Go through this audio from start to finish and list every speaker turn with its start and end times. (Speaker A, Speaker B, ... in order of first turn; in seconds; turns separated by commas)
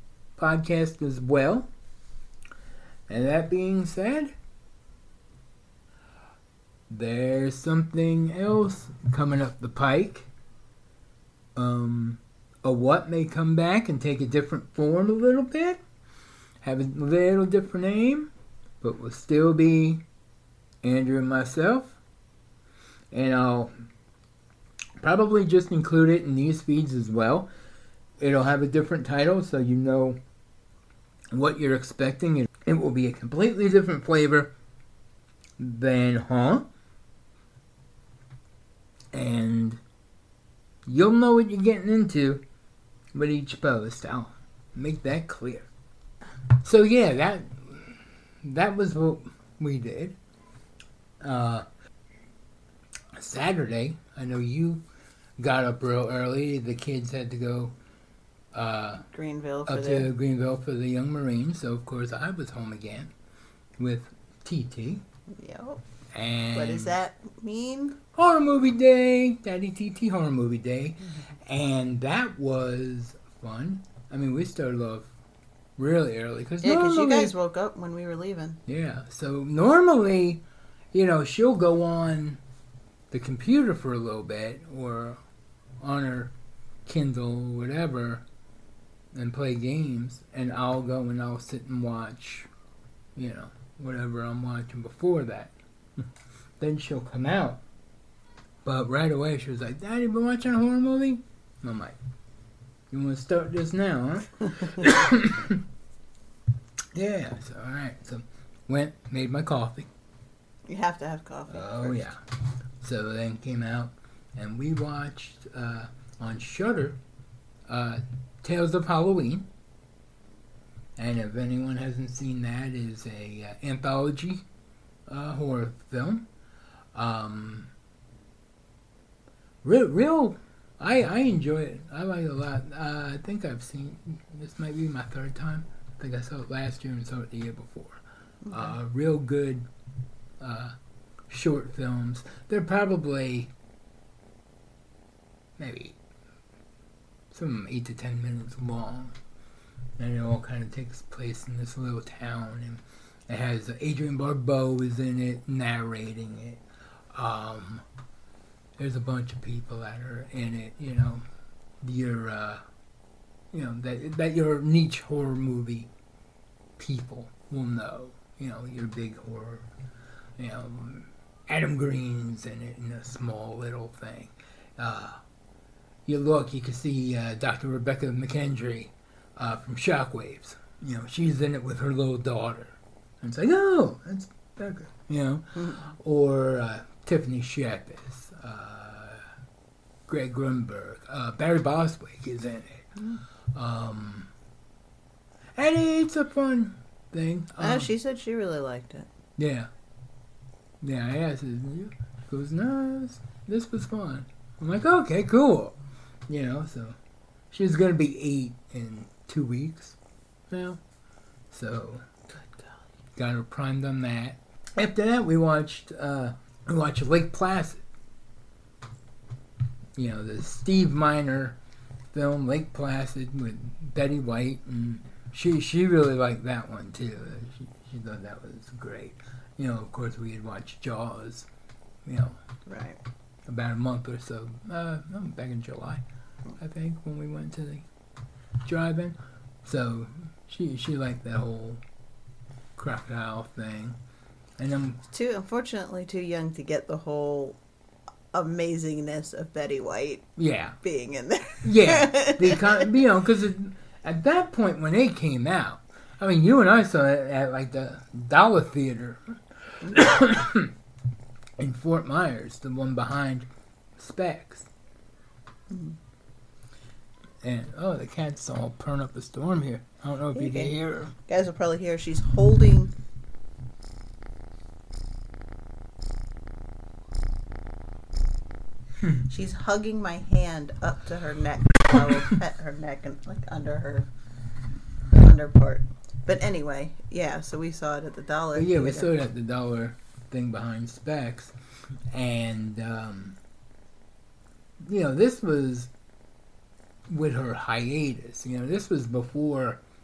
Speaker A: 0.4-1.7, Speaker A: 3.1-4.3, Speaker A: 6.9-10.3, Speaker A: 11.5-15.8, Speaker A: 16.6-20.0, Speaker A: 20.8-22.0, Speaker A: 23.1-23.7, Speaker A: 25.0-27.5, Speaker A: 28.2-30.2, Speaker A: 31.3-34.5, Speaker A: 35.6-36.7, Speaker A: 39.1-39.8, Speaker A: 40.9-42.4, Speaker A: 43.1-45.7, Speaker A: 46.6-50.1, Speaker A: 51.2-51.7, Speaker A: 53.1-54.8, Speaker A: 55.4-57.7, Speaker A: 58.5-59.0, Speaker B: 59.1-60.1, Speaker A: 59.6-63.1, Speaker A: 63.8-65.0, Speaker B: 65.3-65.8, Speaker A: 66.1-66.9, Speaker B: 66.5-68.0, Speaker A: 68.1-75.1, Speaker A: 75.8-77.3, Speaker B: 76.6-78.6, Speaker A: 78.7-82.4, Speaker A: 83.1-85.2, Speaker A: 85.8-86.3, Speaker A: 86.8-88.2, Speaker A: 89.1-92.5, Speaker A: 93.2-96.0, Speaker A: 96.6-97.6, Speaker A: 98.6-102.0, Speaker A: 102.9-105.6, Speaker A: 106.9-109.9, Speaker B: 110.7-112.1, Speaker A: 111.5-112.2, Speaker A: 112.8-117.0, Speaker A: 117.7-119.5, Speaker A: 121.0-124.4, Speaker A: 125.1-126.3, Speaker A: 126.9-127.7, Speaker A: 129.6-139.7, Speaker B: 138.4-138.7, Speaker A: 140.4-140.8, Speaker A: 141.3-143.5, Speaker A: 145.6-146.0, Speaker A: 147.3-149.1, Speaker A: 150.0-156.6, Speaker A: 157.1-157.8, Speaker A: 158.8-161.2, Speaker A: 161.8-162.6, Speaker A: 163.5-165.9, Speaker A: 166.8-169.7, Speaker A: 170.4-175.2, Speaker A: 176.1-189.2, Speaker B: 185.6-185.8, Speaker A: 190.1-192.8, Speaker A: 193.5-194.3, Speaker A: 195.6-197.9, Speaker B: 197.6-199.1, Speaker A: 199.4-199.7, Speaker A: 200.8-207.0, Speaker A: 207.5-209.9, Speaker A: 210.5-210.8, Speaker A: 211.5-212.0, Speaker A: 213.1-217.8, Speaker A: 219.9-221.6, Speaker A: 222.1-231.5, Speaker A: 232.1-232.4, Speaker B: 232.7-233.0, Speaker A: 233.4-236.0, Speaker A: 236.6-237.8, Speaker A: 238.6-241.8, Speaker A: 242.8-244.0, Speaker A: 244.6-245.0, Speaker B: 245.1-247.6, Speaker B: 248.3-250.3, Speaker A: 250.4-250.8, Speaker B: 250.8-252.9, Speaker A: 251.6-260.7, Speaker A: 261.6-264.7, Speaker B: 265.7-266.0, Speaker A: 267.4-271.1, Speaker B: 270.3-272.9, Speaker B: 279.3-284.1, Speaker B: 285.1-289.1, Speaker A: 288.5-291.5, Speaker A: 292.1-293.4, Speaker A: 294.8-295.9, Speaker A: 297.1-299.8